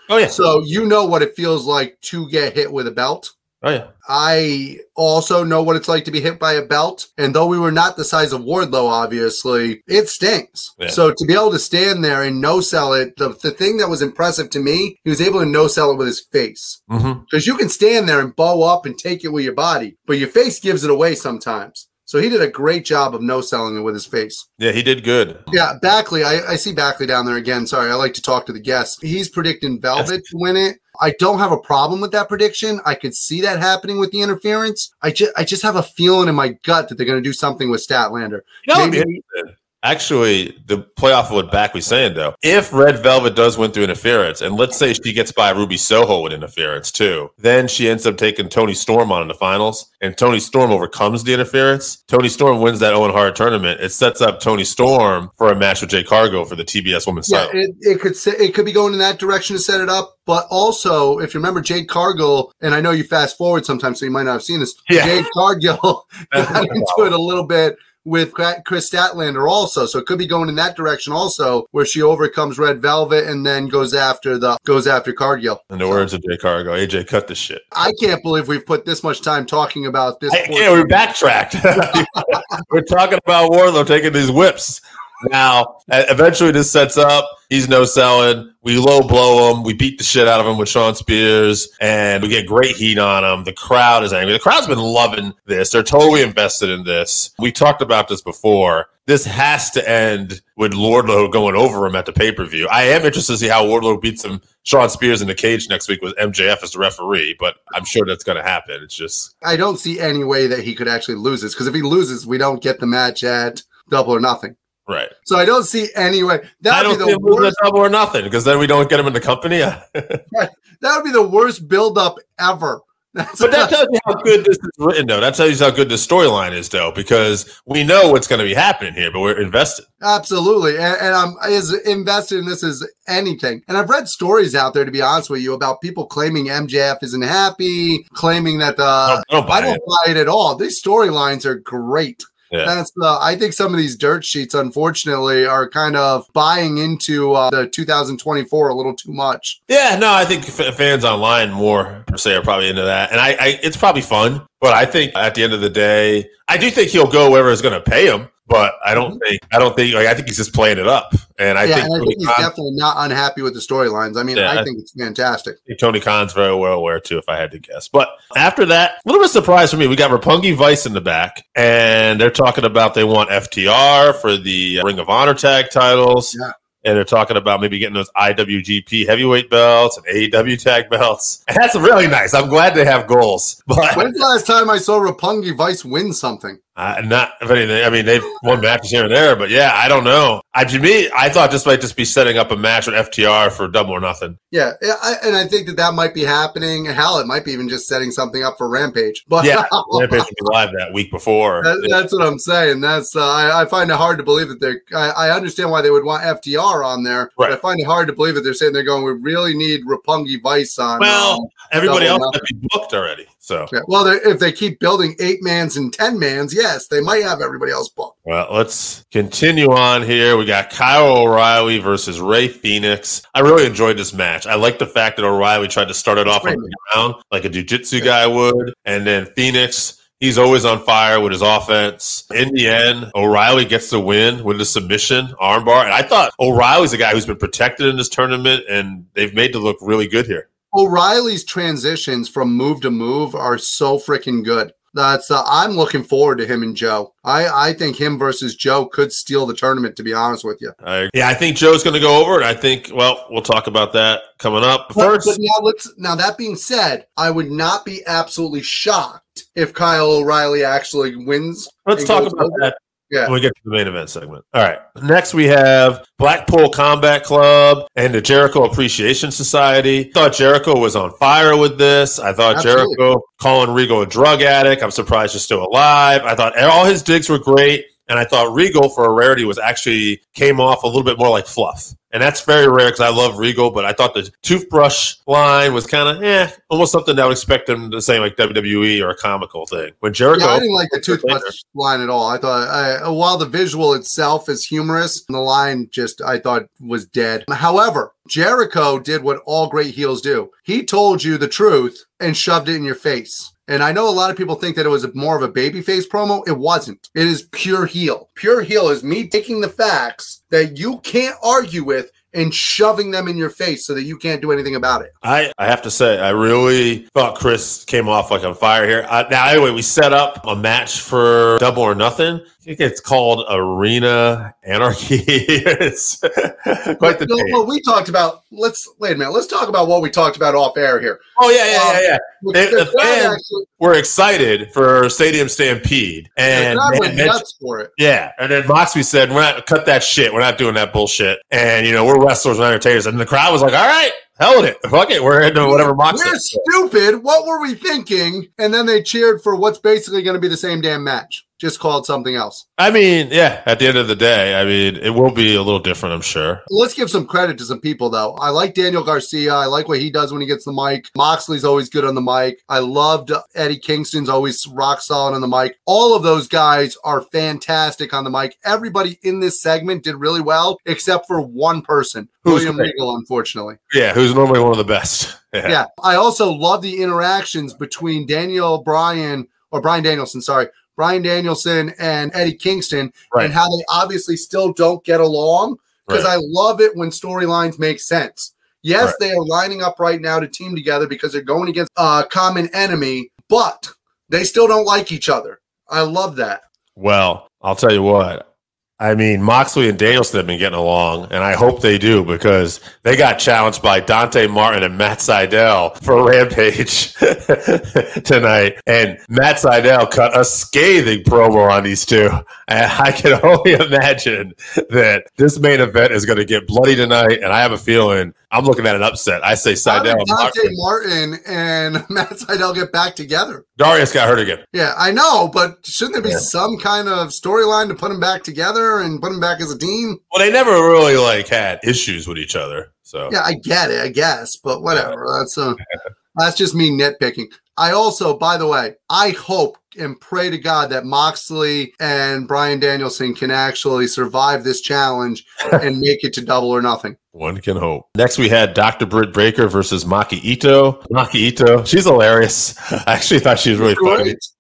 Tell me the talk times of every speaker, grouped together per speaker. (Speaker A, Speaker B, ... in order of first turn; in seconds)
Speaker A: 0.1-0.3, 3.6-3.9, 16.9-17.2, 24.6-25.5, 38.6-57.5, 64.9-65.3, 66.3-67.1, 75.7-77.9, 80.3-109.3, 114.9-115.1, 116.7-120.2, 123.4-129.9, 139.1-139.8, 149.7-162.5, 164.3-164.7, 165.7-184.1, 186.8-194.4, 199.4-202.0, 211.0-213.7, 218.3-240.5, 250.8-255.4, 261.9-291.5, 315.2-327.6, 331.4-337.4, 338.0-346.6, 352.8-356.6, 372.5-372.9, 373.9-375.8, 397.0-398.4, 399.0-420.8, 423.8-424.6, 430.3-433.3, 447.4-454.4
Speaker B: 0.3-3.3, 4.1-24.4, 25.5-39.2, 57.3-76.1, 77.7-81.0, 81.9-82.5, 109.4-114.6, 115.2-117.6, 120.3-123.7, 130.0-149.6, 161.6-165.6, 183.9-186.6, 194.5-200.3, 201.6-212.4, 213.7-218.1, 226.3-226.7, 240.7-250.7, 255.0-263.3, 272.5-273.0, 290.3-315.1, 327.0-333.7, 336.5-337.9, 345.6-352.6, 356.7-373.8, 375.6-396.6, 419.9-423.6, 424.7-430.2, 433.3-435.8, 436.4-447.2, 453.8-454.5